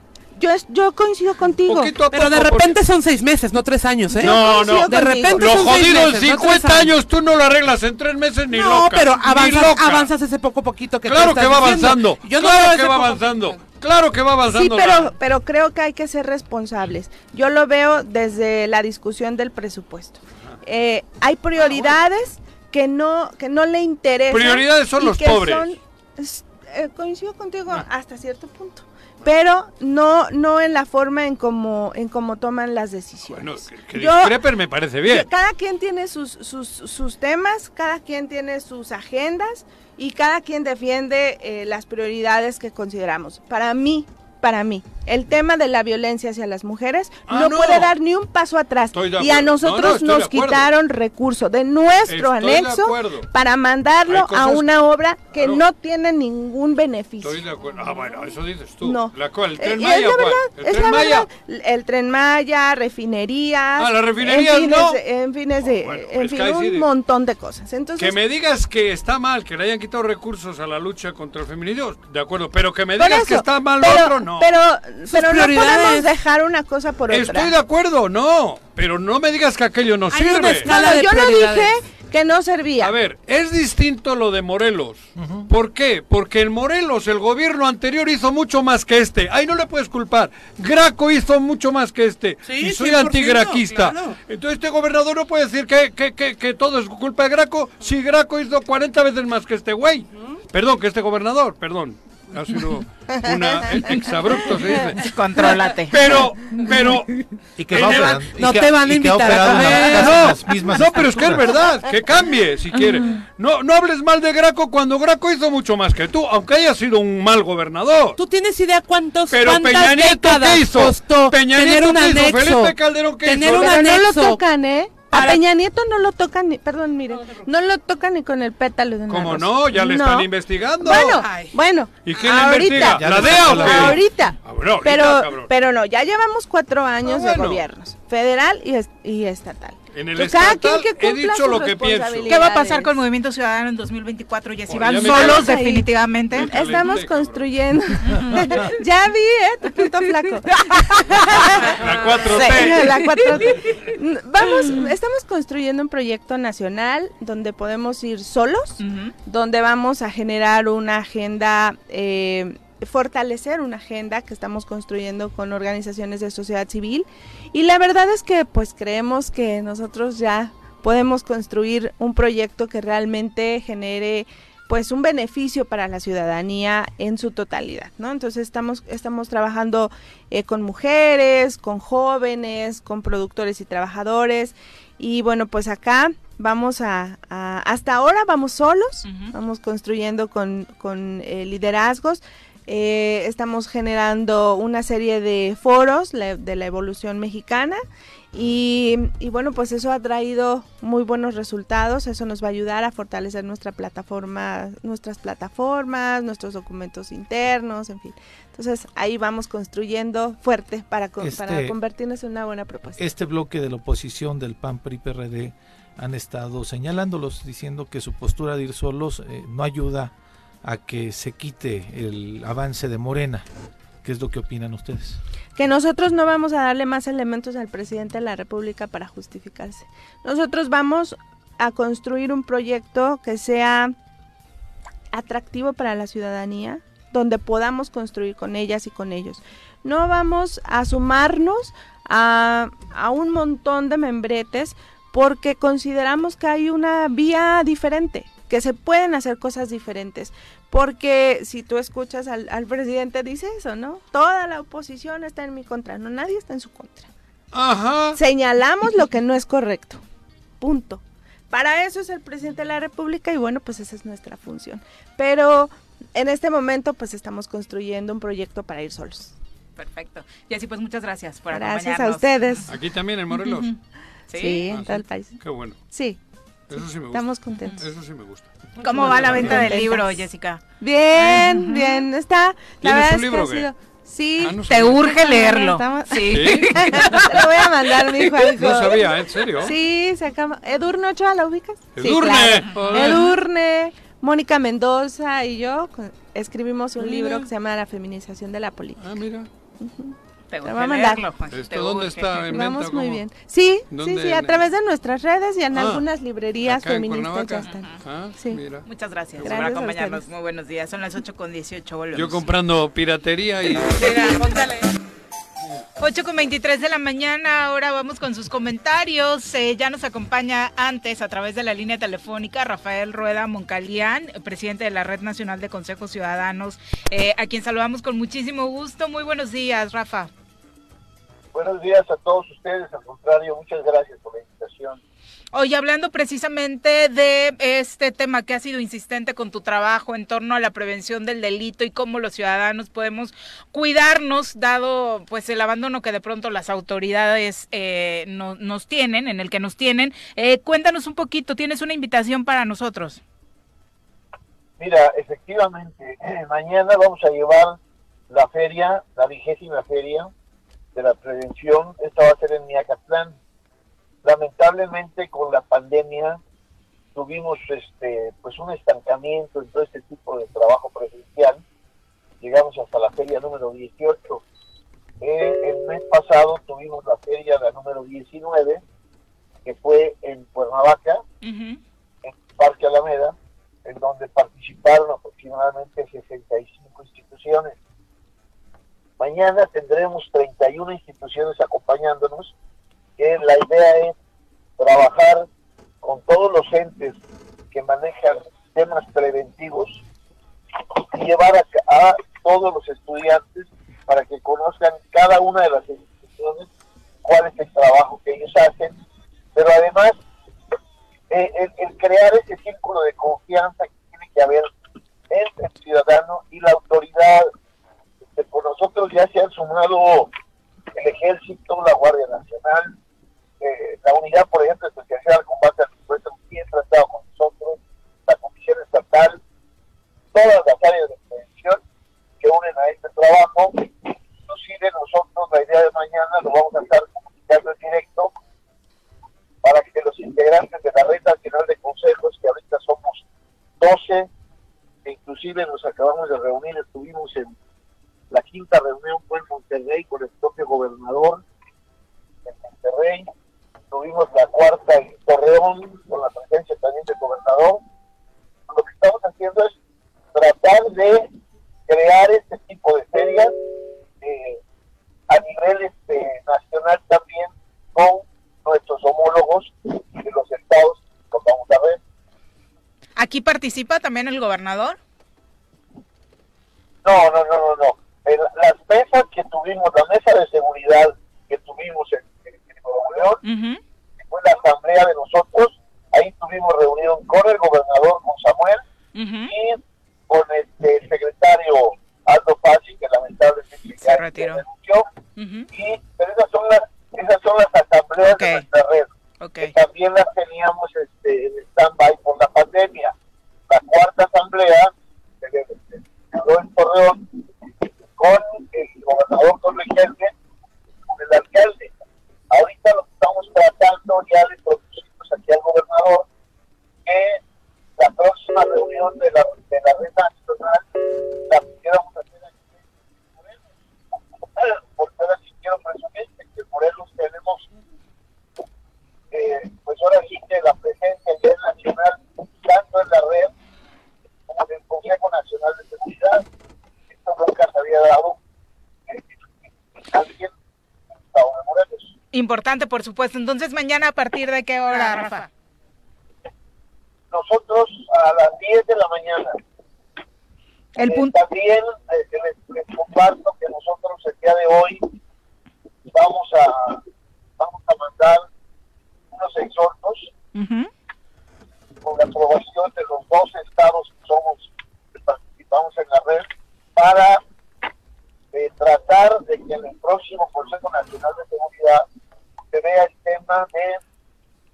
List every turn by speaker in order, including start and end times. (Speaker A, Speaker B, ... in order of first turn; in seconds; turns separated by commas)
Speaker A: 0.3-2.0, Speaker B: 1.6-2.7, Speaker C: 2.1-6.9, Speaker A: 4.1-5.7, Speaker B: 4.2-10.1, Speaker C: 8.5-13.6, Speaker B: 11.0-15.2, Speaker A: 14.5-34.5, Speaker B: 24.3-25.8, Speaker B: 33.3-35.3, Speaker A: 35.0-57.4, Speaker B: 47.3-47.9, Speaker B: 48.9-50.7, Speaker B: 52.1-53.3, Speaker B: 54.1-54.7, Speaker B: 55.3-55.6, Speaker B: 57.2-61.3, Speaker A: 58.8-68.2, Speaker B: 63.8-65.0, Speaker B: 65.7-66.9, Speaker B: 68.0-74.5, Speaker A: 73.0-77.5, Speaker C: 75.1-76.1, Speaker B: 77.1-80.7, Speaker C: 80.1-81.7, Speaker A: 80.7-82.9, Speaker B: 82.8-105.1, Speaker D: 85.2-85.5, Speaker C: 92.4-94.2, Speaker C: 100.1-100.4, Speaker E: 105.0-106.0, Speaker B: 105.9-108.3, Speaker D: 107.6-111.5, Speaker C: 107.8-110.3, Speaker B: 109.3-118.2, Speaker C: 118.2-124.4, Speaker B: 119.3-123.8, Speaker A: 123.4-142.9, Speaker C: 125.1-125.4, Speaker B: 129.1-131.2, Speaker C: 131.0-131.6, Speaker B: 132.0-135.5, Speaker D: 132.9-134.0, Speaker B: 137.0-137.7, Speaker B: 139.9-142.4, Speaker E: 142.3-146.5, Speaker B: 144.7-145.6, Speaker A: 145.0-197.8, Speaker B: 146.3-147.5, Speaker E: 148.1-148.4, Speaker B: 151.6-153.0, Speaker E: 152.4-153.1, Speaker E: 158.8-159.1, Speaker E: 189.0-189.3, Speaker A: 198.3-213.1, Speaker D: 211.2-211.8, Speaker D: 213.0-223.4, Speaker D: 224.0-225.2, Speaker A: 225.6-233.9, Speaker A: 235.1-257.1, Speaker B: 257.5-258.2, Speaker A: 258.1-260.0, Speaker A: 260.6-269.3, Speaker E: 269.8-272.7, Speaker A: 271.5-272.7, Speaker B: 272.7-273.7, Speaker E: 273.4-273.8, Speaker E: 274.3-274.7, Speaker A: 274.3-275.4, Speaker B: 274.7-275.8, Speaker A: 275.9-276.2, Speaker B: 276.7-279.7, Speaker A: 276.7-277.8, Speaker E: 278.8-280.6, Speaker A: 278.9-280.2, Speaker A: 280.8-299.0, Speaker E: 281.1-282.1, Speaker B: 282.8-283.7, Speaker B: 284.4-285.0, Speaker E: 284.7-287.3, Speaker B: 286.3-287.4, Speaker B: 288.0-289.8, Speaker B: 291.9-293.3, Speaker E: 292.7-293.2, Speaker B: 299.0-299.5, Speaker A: 299.8-301.2, Speaker E: 300.5-302.6, Speaker B: 301.5-303.2, Speaker A: 302.5-308.6, Speaker B: 303.9-304.6, Speaker B: 305.7-306.1, Speaker B: 306.6-308.9, Speaker E: 307.6-308.0, Speaker E: 308.8-312.5, Speaker B: 309.4-309.7, Speaker A: 309.4-310.2, Speaker B: 312.1-314.4, Speaker C: 313.9-314.9, Speaker E: 316.0-330.3, Speaker F: 331.5-335.0, Speaker E: 335.5-353.2, Speaker F: 354.8-360.3, Speaker F: 360.9-363.4, Speaker F: 364.2-366.4, Speaker F: 367.1-371.6, Speaker F: 372.4-374.4, Speaker F: 375.2-378.8, Speaker F: 379.6-381.2, Speaker E: 381.4-381.8, Speaker F: 382.2-387.8, Speaker F: 389.2-392.5, Speaker F: 393.2-394.1, Speaker F: 394.8-395.5, Speaker F: 396.0-397.2, Speaker F: 397.7-400.0, Speaker F: 400.9-406.7, Speaker F: 407.2-408.9, Speaker F: 409.5-410.1, Speaker F: 411.3-414.7, Speaker F: 415.3-417.5, Speaker F: 418.2-420.3, Speaker F: 420.9-422.9, Speaker F: 423.6-429.4, Speaker F: 430.3-431.8, Speaker F: 432.4-438.3, Speaker F: 439.6-443.2, Speaker F: 443.8-444.3, Speaker F: 445.0-447.6, Speaker F: 448.3-451.4, Speaker F: 452.4-453.3, Speaker F: 453.9-457.8, Speaker F: 458.7-459.8, Speaker F: 460.3-461.3, Speaker F: 461.9-463.5, Speaker F: 464.2-464.6, Speaker F: 465.3-472.0, Speaker E: 473.2-475.0, Speaker F: 477.0-483.4, Speaker E: 483.4-483.8, Speaker F: 484.2-488.8, Speaker E: 489.1-489.5, Speaker F: 489.5-495.1, Speaker E: 494.0-494.6, Speaker E: 495.4-495.7, Speaker F: 495.7-499.1, Speaker E: 498.2-498.6, Speaker E: 499.4-499.7, Speaker F: 499.6-503.1, Speaker F: 503.7-507.4, Speaker F: 508.2-510.3, Speaker F: 511.1-511.9, Speaker F: 512.5-516.3, Speaker F: 517.0-517.4, Speaker F: 518.0-520.9, Speaker F: 521.5-522.8, Speaker F: 523.4-523.6, Speaker F: 524.4-527.7, Speaker F: 529.3-533.5, Speaker F: 534.5-536.4, Speaker F: 537.1-538.4, Speaker F: 540.0-540.5, Speaker F: 541.3-542.1, Speaker E: 542.3-545.5, Speaker C: 544.9-545.5, Speaker F: 547.3-549.6, Speaker E: 551.0-551.3, Speaker F: 551.0-555.1, Speaker F: 556.1-557.0, Speaker F: 557.6-558.5, Speaker F: 559.3-560.3, Speaker E: 560.5-560.9, Speaker F: 562.0-567.4, Speaker F: 568.5-572.0, Speaker F: 572.7-574.0